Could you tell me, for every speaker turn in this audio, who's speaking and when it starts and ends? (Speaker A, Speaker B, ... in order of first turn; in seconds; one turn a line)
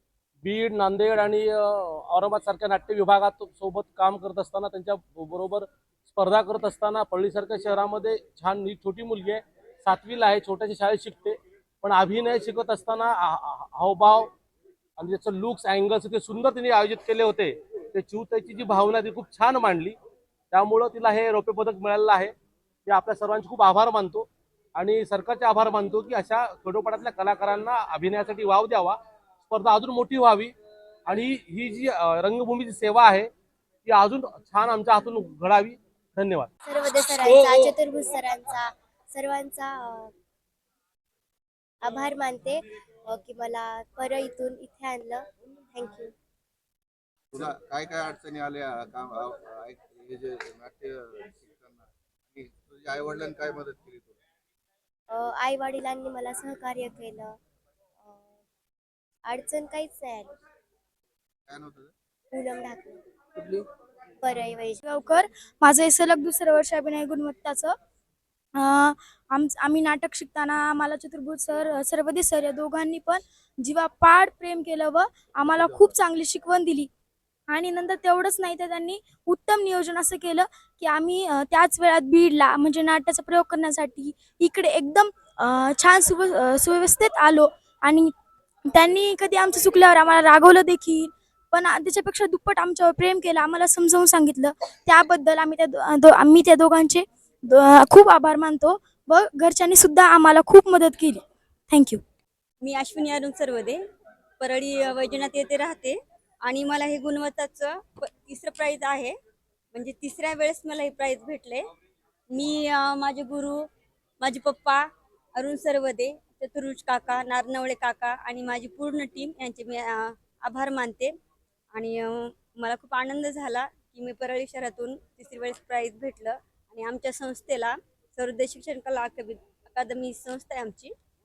Speaker A: 0.4-14.3
Speaker A: 15.0-20.0
Speaker A: 20.5-22.3
Speaker A: 22.9-30.5
Speaker A: 31.1-33.3
Speaker A: 33.9-36.5
Speaker B: 36.6-40.1
Speaker B: 41.8-46.1
Speaker C: 47.3-54.2
Speaker B: 55.1-57.4
Speaker B: 58.0-58.4
Speaker B: 59.2-60.3
Speaker C: 61.5-61.9
Speaker B: 62.3-63.6
Speaker B: 64.2-64.8
Speaker D: 64.9-67.7
Speaker D: 68.6-76.9
Speaker D: 77.5-88.1
Speaker D: 88.7-102.0
Speaker E: 102.6-103.8
Speaker E: 104.4-109.2
Speaker E: 109.7-111.7
Speaker E: 112.3-113.7
Speaker E: 114.2-121.1
Speaker E: 121.7-130.9